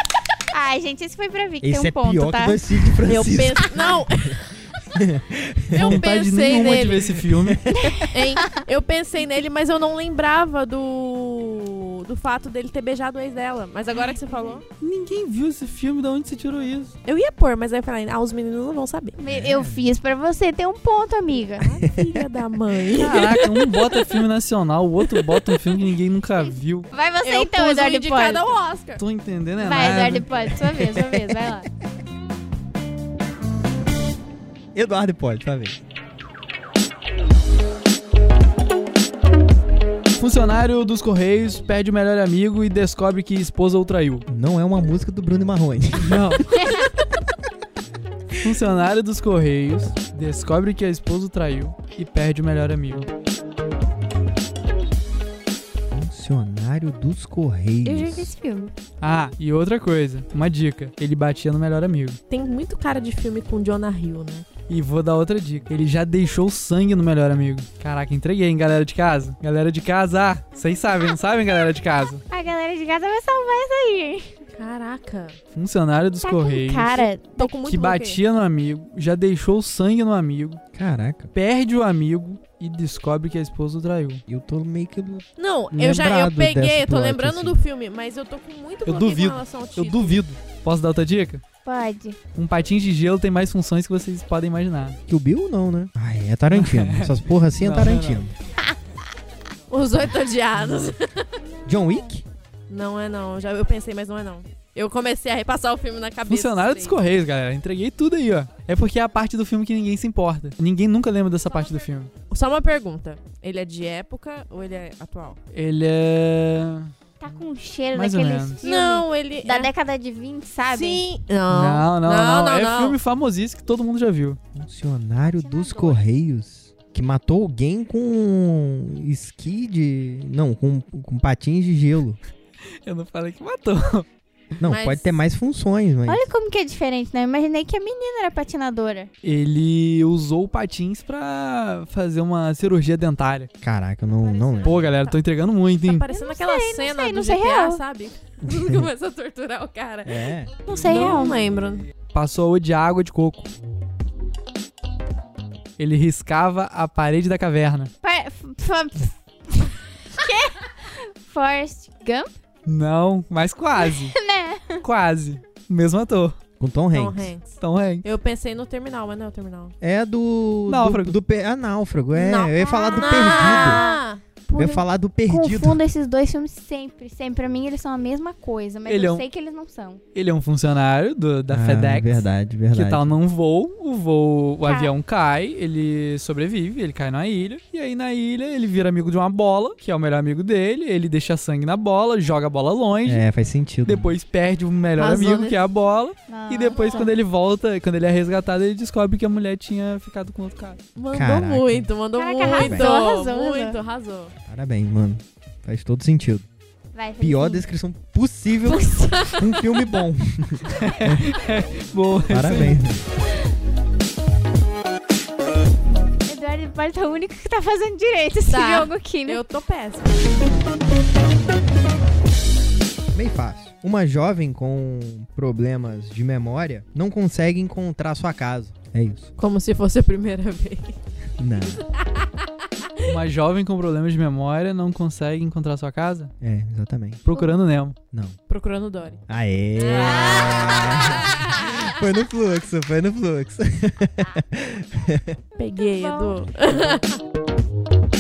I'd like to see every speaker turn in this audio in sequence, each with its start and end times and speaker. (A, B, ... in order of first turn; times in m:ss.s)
0:00.5-0:02.9 A
0:01.6-0:06.0 B
0:03.1-0:04.4 C
0:05.7-0:07.2 C
0:05.7-0:07.6 D
0:07.3-0:07.9 B
0:07.7-0:08.6 A
0:08.0-0:14.6 C
0:14.8-0:16.9 D
0:17.0-0:19.2 C
0:19.2-0:21.7 A
0:19.2-0:19.8 B
0:21.6-0:23.6 C
0:23.0-0:26.9 D
0:26.9-0:28.5 A
0:27.2-0:29.0 C
0:29.0-0:30.3 D
0:29.6-0:31.7 A
0:30.6-0:31.2 B
0:34.8-0:35.8 B
0:40.2-0:44.3 D
0:44.3-0:46.4 B
0:46.0-0:46.4 D
0:46.6-0:46.9 A
0:48.4-0:53.1 D
0:55.9-0:58.3 B
0:57.8-0:58.7 A
0:59.0-1:02.2 D
1:02.3-1:04.5 C
1:04.7-1:12.2 D
1:12.3-1:14.4 A
1:14.6-1:15.4 C
1:15.5-1:17.1 D
1:16.2-1:17.5 A
1:17.4-1:18.2 C
1:17.6-1:20.6 D
1:20.7-1:21.3 B
1:21.3-1:24.2 D
1:24.3-1:27.6 B
1:25.4-1:30.2 C
1:28.9-1:31.4 D
1:31.6-1:32.2 A
1:32.4-1:35.0 D
1:35.1-1:38.3 B
1:36.5-1:38.2 D
1:39.7-1:41.4 C
1:41.5-1:42.1 A
1:41.6-1:42.2 B
1:42.7-1:47.0 C
1:46.3-1:52.1 D
1:52.3-1:55.4 C
1:55.5-1:56.9 D
1:57.2-2:01.0 A
1:58.0-1:58.6 D
1:58.6-1:59.7 C
2:00.7-2:03.0 C
2:01.5-2:04.4 D
2:04.6-2:12.2 B
2:05.4-2:06.0 A
2:12.8-2:14.1 D
2:14.6-2:16.3 B
2:14.6-2:15.2 C
2:16.1-2:19.1 A
2:19.2-2:23.5 D
2:23.6-2:24.8 B
2:24.3-2:25.2 C
2:24.3-2:24.8 A
2:24.6-2:26.0 D
2:25.8-2:31.8 C
2:26.1-2:27.8 A
2:28.4-2:28.9 B
2:30.0-2:30.5 B
2:30.7-2:31.4 A
2:32.1-2:33.5 D
2:35.8-2:37.9 D
2:38.0-2:42.3 A
2:42.7-2:44.2 D
2:43.8-2:44.8 A
2:44.8-2:46.4 D
2:46.6-2:47.3 B
2:46.9-2:49.7 C
2:47.6-2:48.0 D
2:49.8-2:53.8 B
2:50.7-2:51.2 D
2:52.1-2:54.2 C
2:52.7-3:00.0 A
2:54.6-2:55.8 B
2:58.9-2:59.2 D
3:00.1-3:13.2 D
3:01.5-3:03.1 B
3:04.6-3:04.9 A
3:13.0-3:14.1 B
3:13.8-3:20.8 D
3:15.0-3:15.5 C
3:16.3-3:17.1 A
3:21.0-3:24.4 C
3:21.1-3:21.9 B
3:22.2-3:23.8 A
3:22.4-3:22.9 B
3:24.5-3:26.5 B
3:26.9-3:27.6 A
3:27.2-3:31.3 B
3:28.7-3:29.4 A
3:30.8-3:32.8 D
3:32.3-3:33.0 B
3:36.3-3:39.4 A
3:38.5-3:40.5 C
3:43.1-3:49.3 B
3:49.4-3:51.0 C
3:51.4-3:51.8 B
3:53.0-3:56.3 D
3:56.4-3:57.2 B
3:57.2-3:58.0 D
3:58.5-3:59.2 C
3:59.3-4:05.4 B
3:59.8-4:01.7 C
4:00.0-4:01.2 A
4:05.6-4:07.2 C
4:05.6-4:06.4 A